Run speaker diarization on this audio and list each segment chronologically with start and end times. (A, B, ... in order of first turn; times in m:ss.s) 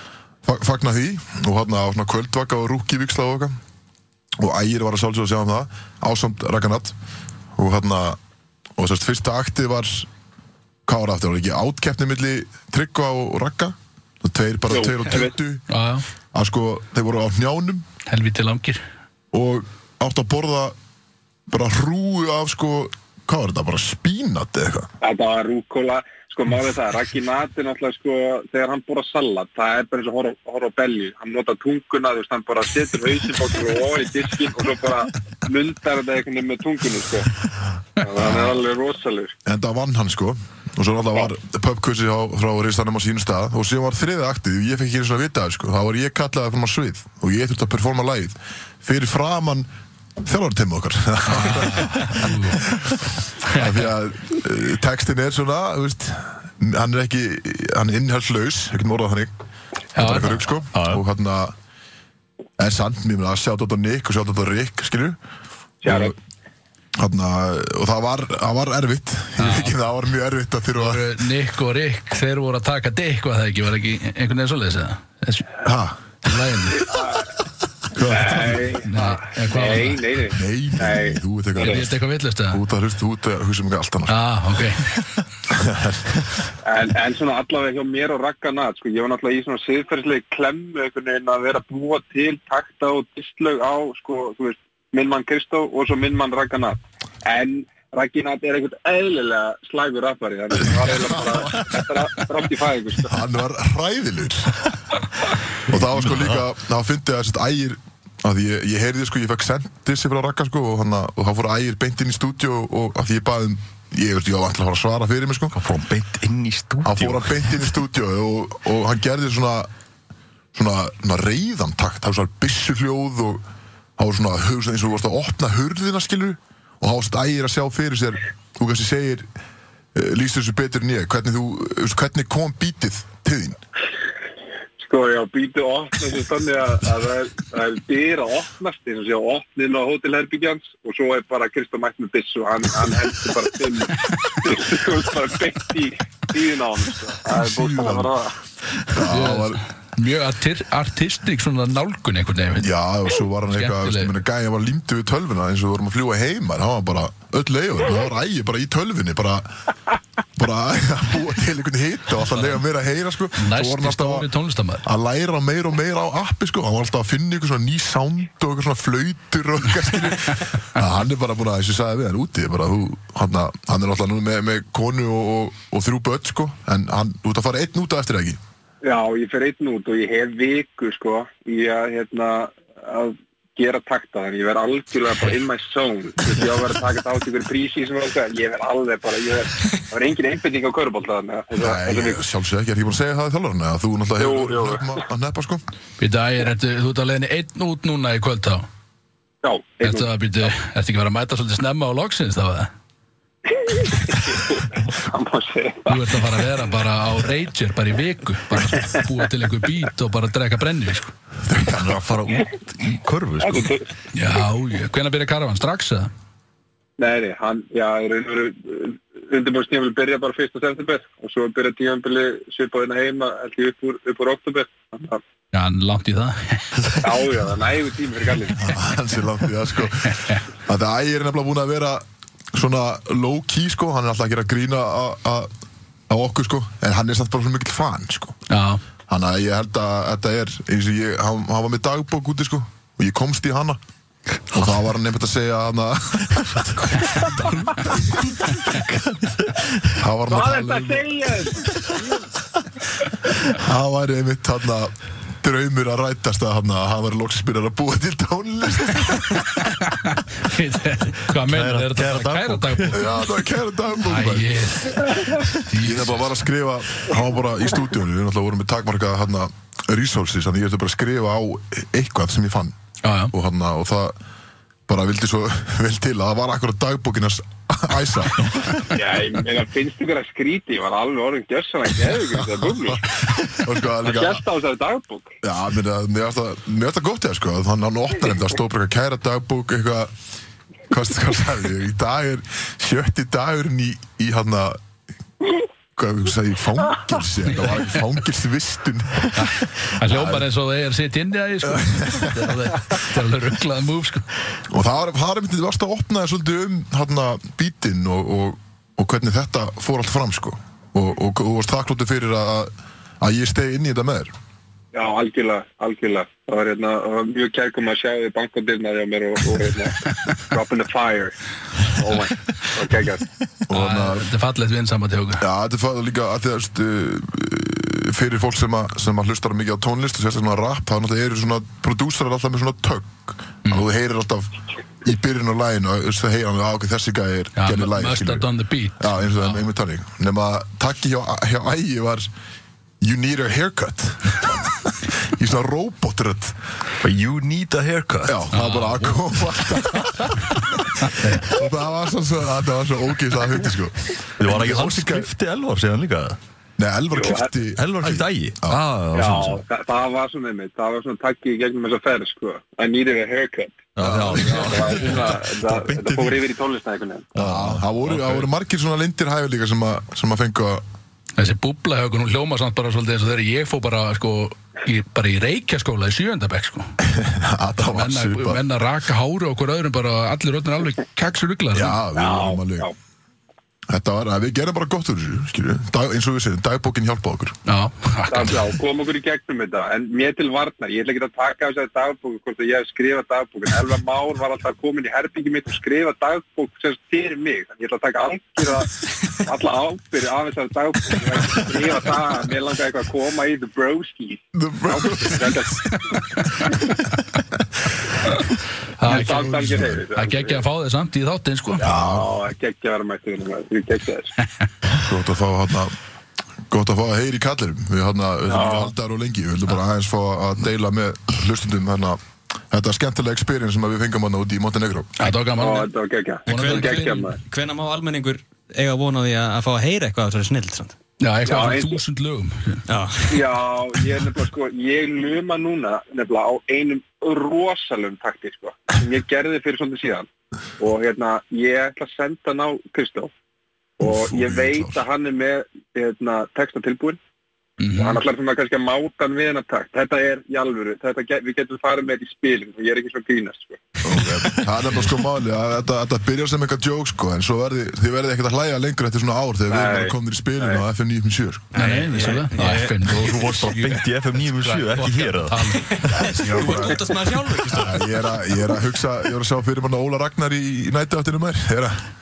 0:00.4-0:03.5 A
0:04.4-0:06.9 A
0:07.6-0:08.2 A
0:08.8-0:10.1 A
0:10.9-0:15.6 A
0:14.7-0:15.3 B
0:15.7-0:16.0 C
0:16.3-0:17.8 A
0:18.1-0:18.8 C
0:19.3-0:20.7 A
0:21.5-0:24.9 A
0:25.0-0:37.3 B
0:38.0-0:39.3 B
0:38.1-0:38.6 A
0:39.4-0:49.7 A
0:50.2-0:52.2 A
0:51.3-0:52.6 C
0:53.5-0:53.9 C
0:53.6-0:59.3 A
0:59.9-1:00.6 C
0:59.9-1:01.5 A
1:00.7-1:01.0 D
1:02.6-1:05.2 A
1:05.8-1:06.1 B
1:05.8-1:06.1 A
1:07.0-1:11.1 A
1:09.4-1:09.7 C
1:10.8-1:15.6 C
1:15.6-1:16.0 A
1:16.2-1:16.9 C
1:16.8-1:17.3 B
1:17.9-1:18.7 A
1:18.0-1:21.8 B
1:18.8-1:20.0 C
1:20.3-1:21.9 A
1:21.6-1:22.6 C
1:22.5-1:24.2 A
1:24.1-1:24.9 C
1:25.5-1:26.1 A
1:26.6-1:43.1 B
1:43.1-1:44.7 A
1:45.7-1:55.5 A
1:45.7-1:46.4 D
1:55.5-1:57.6 D
1:56.8-1:59.7 A
2:00.5-2:03.4 A
2:04.0-2:09.3 A
2:09.9-2:13.6 A
2:14.8-2:28.3 B
2:27.3-2:28.1 A
2:28.9-2:29.6 A
2:29.0-2:32.7 C
2:32.6-2:39.5 A
2:33.5-2:34.1 C
2:40.4-2:44.3 A
2:43.4-2:44.8 C
2:44.8-2:58.4 A
2:58.8-3:12.2 B
3:11.6-3:15.6 A
3:14.2-3:15.0 B
3:16.0-3:18.6 C
3:19.4-3:20.1 B
3:19.8-3:22.7 C
3:23.5-3:26.0 B
3:25.9-3:31.1 C
3:28.7-3:29.0 B
3:31.5-3:31.9 A
3:31.7-3:33.7 D
3:33.4-3:33.9 B
3:34.1-3:36.1 C
3:37.0-3:45.2 B
3:45.5-3:46.6 C
3:47.0-3:48.8 B
3:48.6-3:52.0 A
3:52.5-3:55.5 A
3:56.1-3:58.4 A
3:58.5-3:58.8 C
3:59.1-4:03.8 A
4:04.5-4:06.8 A
4:06.6-4:09.8 D
4:10.0-4:11.1 A
4:10.3-4:12.3 B
4:13.4-4:19.5 A
4:19.9-4:23.1 C
4:21.4-4:23.1 D
4:22.9-4:24.6 A
4:24.0-4:26.3 C
4:25.8-4:32.7 A
4:33.0-4:33.3 C
4:33.3-4:34.1 A
4:34.9-4:38.4 A
4:38.9-4:43.1 B
4:42.3-4:44.4 A
4:44.0-4:45.3 B
4:45.4-4:50.1 A
4:50.9-4:54.8 A
4:55.9-5:00.5 A
4:57.5-4:57.9 C
4:59.4-5:04.2 C
5:01.6-5:02.5 A
5:04.7-5:14.3 A
5:14.9-5:23.2 B
5:23.7-5:24.3 A
5:23.7-5:25.4 C
5:25.4-5:34.5 A
5:35.0-5:38.5 A
5:37.6-5:39.6 C
5:39.0-5:42.3 A
5:43.0-5:46.6 A
5:47.0-5:48.4 D
5:48.2-5:50.6 A
5:48.5-5:49.4 C
5:51.3-5:55.3 A
5:54.4-5:56.4 D
5:56.8-5:58.8 A
5:57.1-5:57.5 B
5:57.7-5:59.6 D
5:59.1-6:07.3 B
6:04.0-6:06.4 D
6:04.0-6:04.9 A
6:07.3-6:10.8 A
6:07.4-6:08.5 D
6:11.4-6:16.9 C
6:17.0-6:18.6 A
6:17.8-6:22.0 C
6:21.7-6:22.9 A
6:22.2-6:22.9 B
6:23.9-6:27.6 A
6:27.7-6:28.6 C
6:28.3-6:46.2 B
6:44.5-6:45.7 A
6:49.0-6:51.8 C
6:49.0-6:50.6 B
6:51.8-6:54.3 B
6:51.8-6:52.3 A
6:54.9-6:55.9 A
6:56.7-7:02.2 A
6:58.5-6:58.9 B
7:02.7-7:05.1 A
7:05.2-7:05.9 C
7:05.6-7:07.4 B
7:06.4-7:07.3 C
7:06.5-7:11.0 E
7:11.2-7:12.8 C
7:11.4-7:12.0 B
7:12.9-7:13.2 E
7:13.3-7:20.2 B
7:20.8-7:23.3 B
7:24.0-7:27.2 B
7:24.0-7:25.0 A
7:27.8-7:28.2 C
7:27.9-7:33.8 B
7:34.0-7:41.7 A
7:39.7-7:40.8 B
7:41.7-7:42.7 E
7:41.7-7:46.0 C
7:42.6-7:46.9 D
7:45.8-7:48.0 E
7:46.4-7:47.0 A
7:47.7-7:52.0 A